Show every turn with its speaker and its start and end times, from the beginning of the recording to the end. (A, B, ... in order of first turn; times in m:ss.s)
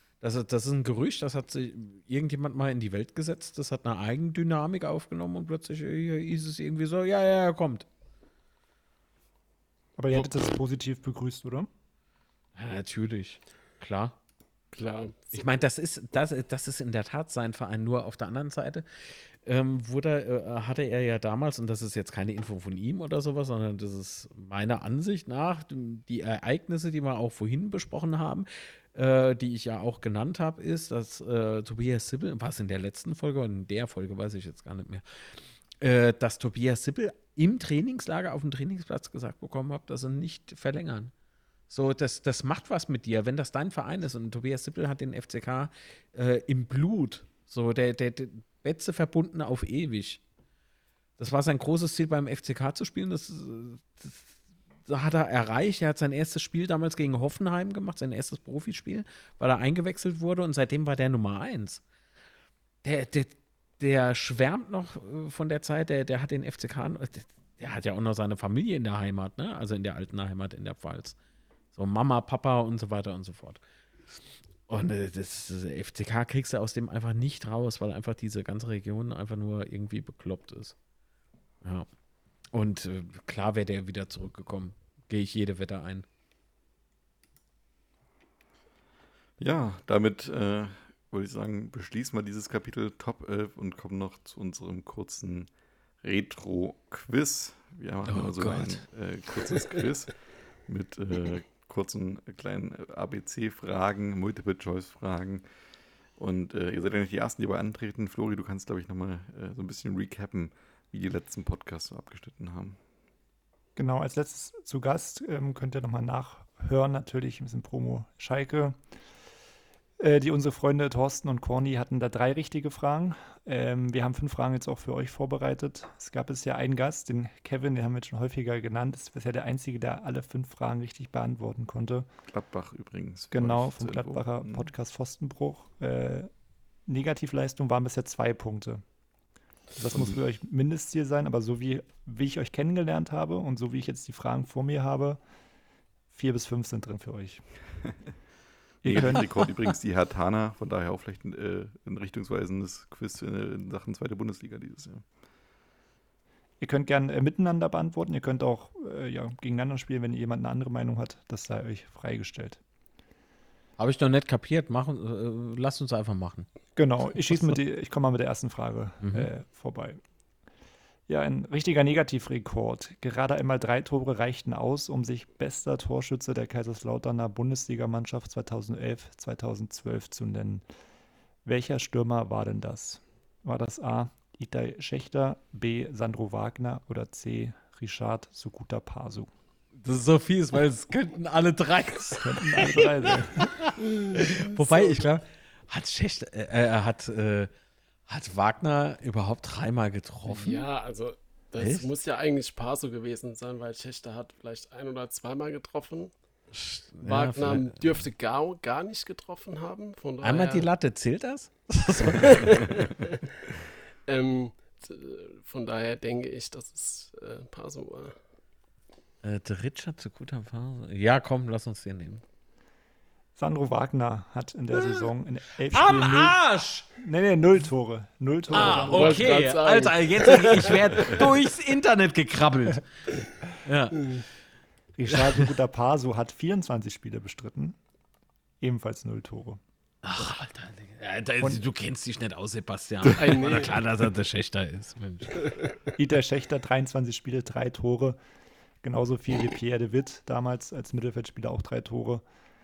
0:00.2-0:07.9 A
0:10.0-0:11.7 B
0:12.5-0:14.2 A
0:14.7-0:15.4 C
0:15.3-0:35.0 A
0:35.8-0:41.1 A
0:41.7-0:50.2 A
0:51.2-0:54.3 A
0:54.8-1:01.8 A
1:02.8-1:11.2 A
1:11.7-1:13.6 A
1:14.7-1:20.7 A
1:22.5-1:26.0 A
1:29.4-1:35.5 D
1:36.0-1:45.4 D
1:38.1-1:38.8 A
1:46.2-1:52.8 D
1:53.8-1:58.8 B
2:00.0-2:12.1 B
2:12.3-2:14.7 D
2:13.3-2:16.3 B
2:16.9-2:18.8 B
2:19.8-2:25.2 B
2:26.1-2:27.4 B
2:28.8-2:29.5 B
2:28.8-2:35.0 D
2:36.6-2:42.6 B
2:43.8-2:46.5 A
2:46.8-2:50.0 B
2:49.0-2:49.3 A
2:51.1-3:00.6 B
3:01.4-3:09.3 B
3:09.8-3:17.5 A
3:12.2-3:13.5 B
3:13.9-3:15.0 C
3:18.1-3:20.6 A
3:20.3-3:26.1 C
3:21.6-3:21.9 A
3:26.5-3:28.0 A
3:27.0-3:30.7 C
3:30.2-3:32.6 A
3:32.0-3:33.2 C
3:34.0-3:38.2 C
3:39.2-3:42.2 A
3:43.4-3:46.4 B
3:45.7-3:46.8 A
3:47.0-3:49.4 B
3:48.5-3:51.2 C
3:48.5-3:52.9 A
3:53.6-3:54.2 A
3:55.0-3:57.8 B
3:55.1-3:55.4 A
3:58.6-3:59.6 B
4:00.0-4:05.4 A
4:03.2-4:03.8 C
4:05.4-4:05.7 C
4:06.0-4:08.2 B
4:08.8-4:12.2 B